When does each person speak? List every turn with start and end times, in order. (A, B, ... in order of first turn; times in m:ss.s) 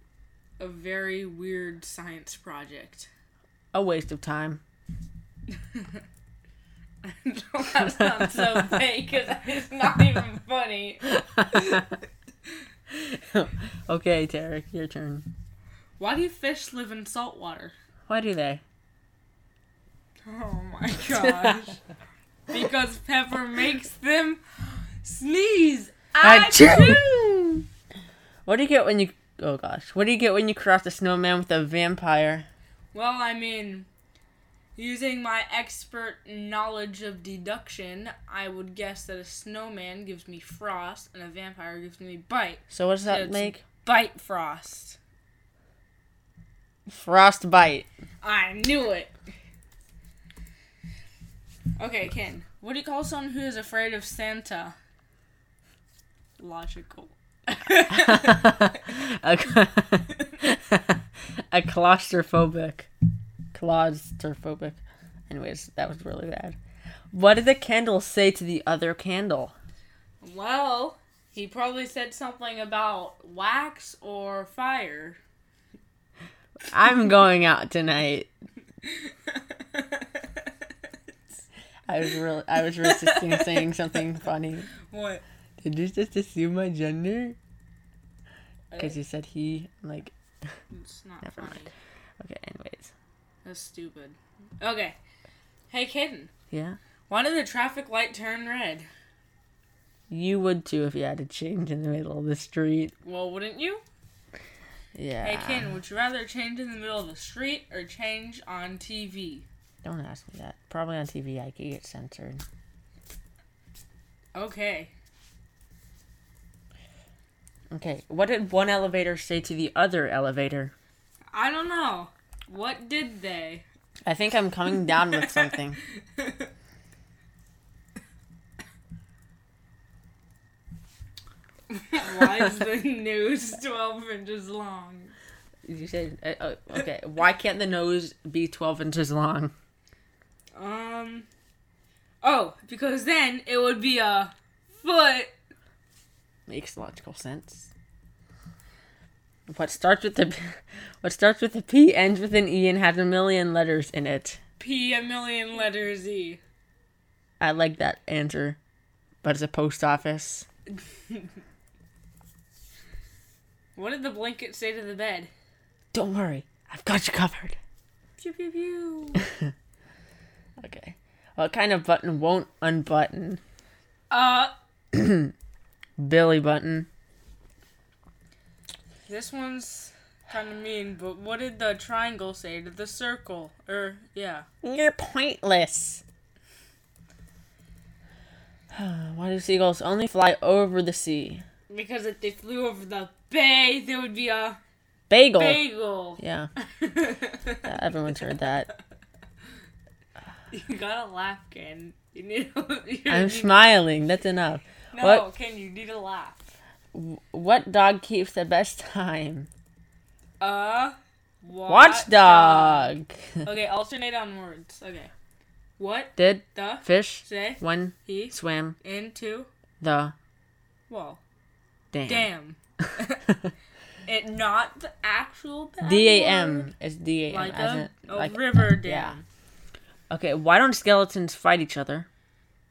0:00.6-0:03.1 A
0:03.7-0:04.6 B
0:05.5-0:06.0 A
0:07.0-0:11.0 A
0:11.1-0:11.9 B
0:12.9-0:15.3 B
0:16.0-0:17.8 A
0:18.1-0:18.6 B
0:20.3-0:21.8 A
0:22.5-0:27.2 A
0:26.2-0:27.6 B
0:28.5-0:32.5 B
0:32.9-0:33.9 A
0:34.8-0:45.0 A
0:42.7-0:43.6 B
0:46.9-0:47.9 B
0:48.2-0:49.2 A
0:51.8-0:54.8 A
0:56.4-0:58.8 A
0:57.9-1:02.9 B
1:03.5-1:06.6 B
1:07.1-1:09.5 B
1:10.2-1:15.2 A
1:16.7-1:18.3 B
1:18.8-1:20.5 A
1:21.9-1:24.7 B
1:22.7-1:24.2 A
1:24.8-1:25.2 A
1:25.6-1:27.4 B
1:28.7-1:29.0 A
1:28.8-1:30.2 B
1:30.7-1:31.7 A
1:31.2-1:31.7 B
1:32.2-1:32.9 B
1:33.4-1:35.0 A
1:35.7-1:36.3 A
1:36.5-1:36.8 B
1:37.1-1:38.9 A
1:40.1-1:43.0 B
1:43.0-1:43.8 A
1:45.0-1:45.7 B
1:45.2-1:49.5 A
1:49.8-1:52.4 B
1:54.4-1:54.9 A
1:57.7-2:00.7 B
2:01.3-2:03.6 A
2:04.1-2:05.8 B
2:04.8-2:06.5 A
2:11.7-2:15.1 A
2:15.7-2:19.5 B
2:20.6-2:21.3 A
2:22.2-2:25.3 A
2:26.5-2:27.7 B
2:29.5-2:34.4 B
2:34.6-2:36.4 A
2:37.4-2:38.6 B
2:39.2-2:40.5 B
2:43.8-2:45.3 A
2:45.9-2:47.6 B
2:48.2-2:49.2 A
2:50.6-2:53.4 B
2:54.1-2:54.5 A
2:54.9-2:55.3 B
2:56.0-2:56.9 B
2:59.1-3:04.5 A
3:04.6-3:06.0 B
3:08.7-3:11.4 B
3:11.7-3:14.6 A
3:15.1-3:15.6 B
3:15.4-3:18.3 A
3:16.2-3:16.5 B
3:17.6-3:18.7 B
3:20.5-3:23.6 A
3:23.1-3:25.3 B
3:24.9-3:26.5 A
3:26.9-3:29.5 B
3:30.4-3:35.1 A
3:31.7-3:33.3 B
3:35.8-3:39.5 A
3:36.2-3:38.8 B
3:39.8-3:40.1 B
3:40.9-3:41.2 A
3:41.9-3:42.3 B
3:42.1-3:43.3 A
3:44.1-3:46.7 A
3:45.8-3:49.2 B
3:47.3-3:49.2 A
3:50.1-3:52.1 B